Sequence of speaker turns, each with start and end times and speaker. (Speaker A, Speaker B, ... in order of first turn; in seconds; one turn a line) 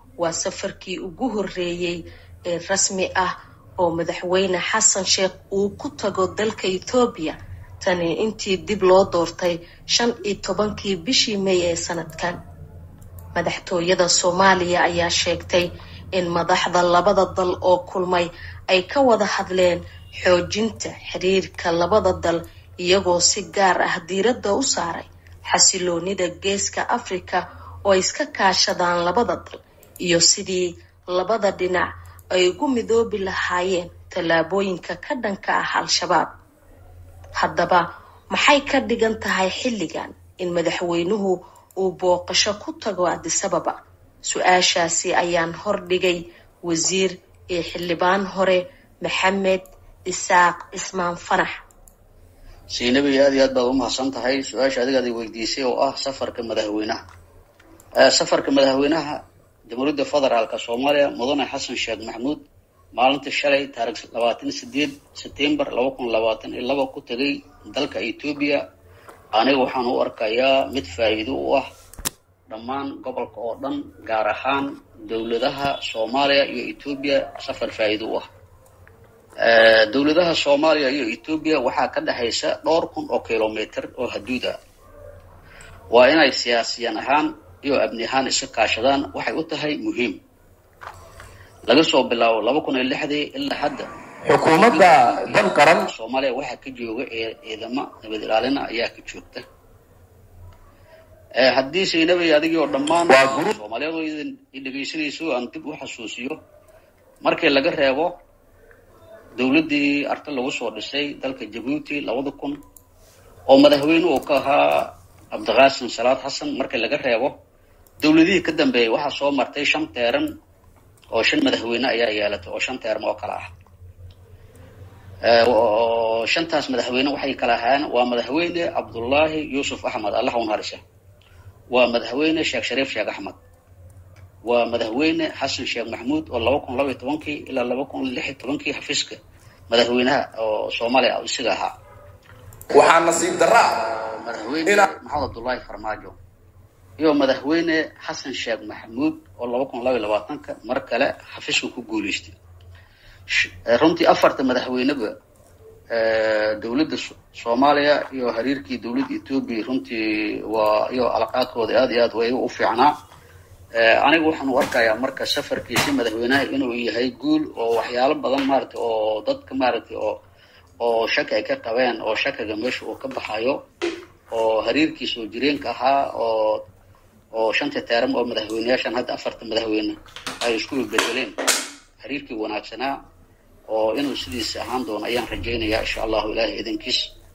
Speaker A: 0.2-12.4
Speaker A: 13.3-36.3
Speaker A: 37.4-51.6
Speaker B: 52.7-57.0
Speaker B: 58.0-62.4
Speaker B: 62.9-68.6
Speaker B: 69.3-71.7
Speaker B: 72.5-78.3
Speaker B: 79.4-84.6
Speaker B: 85.9-90.2
Speaker B: 91.7-93.9
Speaker C: 94.2-95.9
Speaker B: 94.6-99.4
Speaker B: 101.4-106.4
Speaker C: 103.1-103.5
Speaker B: 107.2-108.2
Speaker B: 109.3-112.6
Speaker B: 113.5-117.3
Speaker B: 118.0-120.3
Speaker B: 121.1-123.5
Speaker B: 125.2-130.8
Speaker B: 131.7-133.4
Speaker B: 134.4-141.8
Speaker C: 142.7-143.8
Speaker B: 143.7-146.2
Speaker C: 144.6-144.9
Speaker B: 147.0-152.4
Speaker B: 153.3-155.1
Speaker B: 155.9-162.9
Speaker B: 163.7-170.2
Speaker B: 170.8-173.6
Speaker B: 174.3-176.6
Speaker B: 177.3-181.3
Speaker B: 182.0-182.9
Speaker B: 183.7-187.1